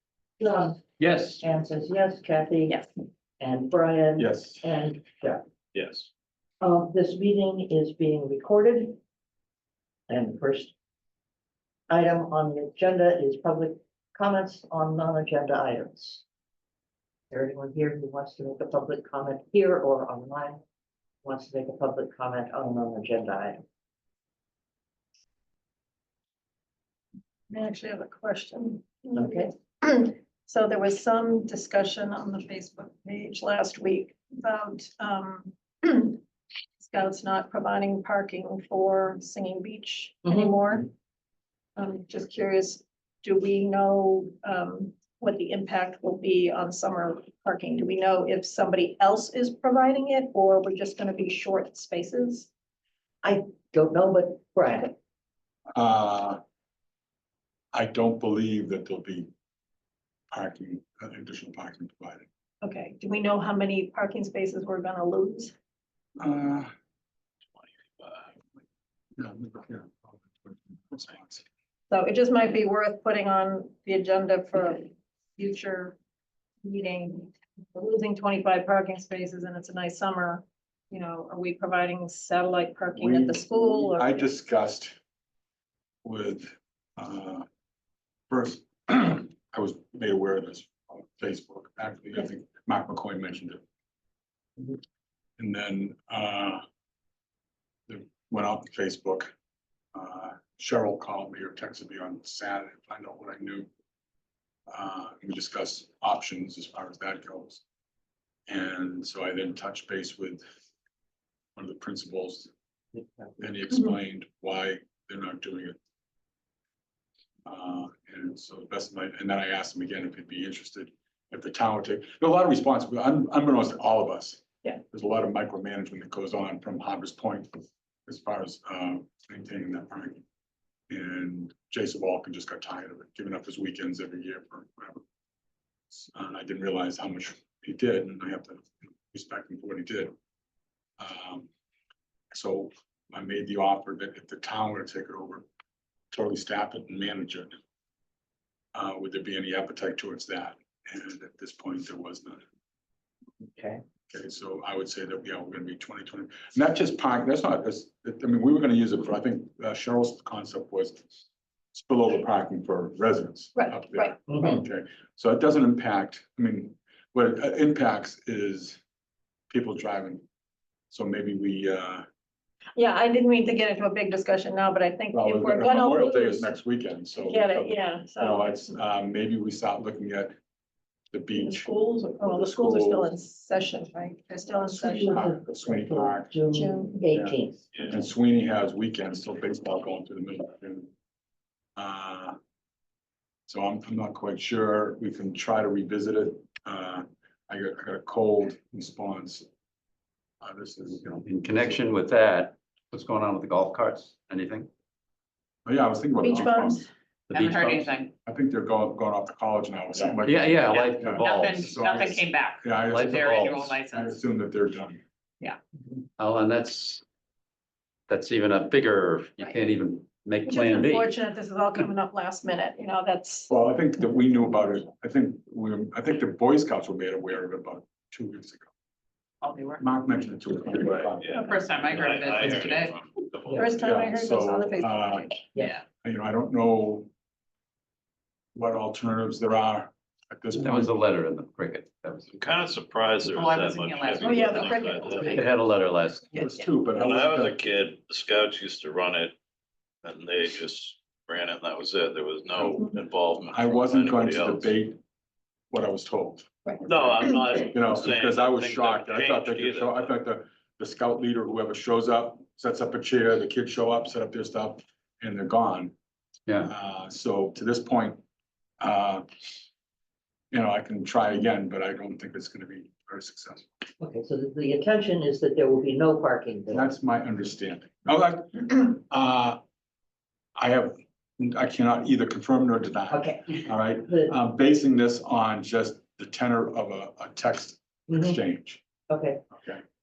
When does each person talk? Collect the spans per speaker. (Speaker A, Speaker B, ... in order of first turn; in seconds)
Speaker A: 0.4-0.8, 1.4-2.9, 3.4-5.4, 6.6-9.0, 10.1-10.7, 11.9-16.2, 17.3-20.6, 21.2-23.6, 29.1-29.5, 40.2-40.5, 53.2-55.0, 113.0-113.3, 153.4-153.8, 164.3-164.6, 184.6-187.6, 233.5-233.7, 274.0-276.9, 283.1-284.3, 288.1-288.4, 289.1-289.4
Speaker B: 1.0-1.4, 201.0-204.7, 207.3-207.9, 210.2-211.8, 212.8-213.6, 216.2-217.0, 218.1-221.1, 240.5-242.3, 245.3-246.3
Speaker C: 4.2-4.6, 55.7-56.4, 57.7-59.3, 60.3-62.3, 66.2-66.7, 69.2-71.5, 83.0-85.0, 86.0-87.5, 88.3-93.6, 95.4-96.6, 97.9-99.3, 99.9-103.7, 104.7-107.6, 108.5-110.4, 111.5-112.5, 113.4-115.8, 117.5-130.2, 130.9-135.0, 135.9-140.1, 141.0-141.5, 142.3-145.4, 146.1-147.6, 148.7-152.4, 154.1-161.0, 161.7-168.8, 169.5-170.2, 170.9-172.1, 175.1-180.3, 181.1-183.1, 185.1-186.3, 187.1-190.9, 191.8-192.3, 193.5-199.4, 200.4-201.8, 205.7-206.8, 208.2-215.0, 223.5-228.7, 229.8-232.6, 233.8-235.3, 236.0-237.1, 238.5-240.9, 246.3-247.6, 253.5-255.0, 255.7-265.9, 266.6-268.2, 268.8-269.2, 270.5-273.7, 276.7-279.6, 280.6-288.8
Speaker D: 5.7-6.1, 67.6-68.3, 187.7-188.0, 231.0-233.9, 242.3-245.4, 246.9-249.3, 250.0-254.7, 256.8-260.1
Speaker E: 27.5-36.2, 36.8-40.9, 41.8-52.5, 62.6-65.5, 71.9-76.0, 76.6-84.3, 163.5-164.1, 172.8-176.5, 177.2-178.7, 181.3-185.3, 186.5-187.0, 206.2-206.9, 220.4-223.5, 231.3-231.6, 233.5-235.4, 244.2-245.3
Speaker F: 207.3-208.1, 210.6-214.2, 229.4-229.8, 231.4-232.9, 235.5-235.8, 243.3-245.5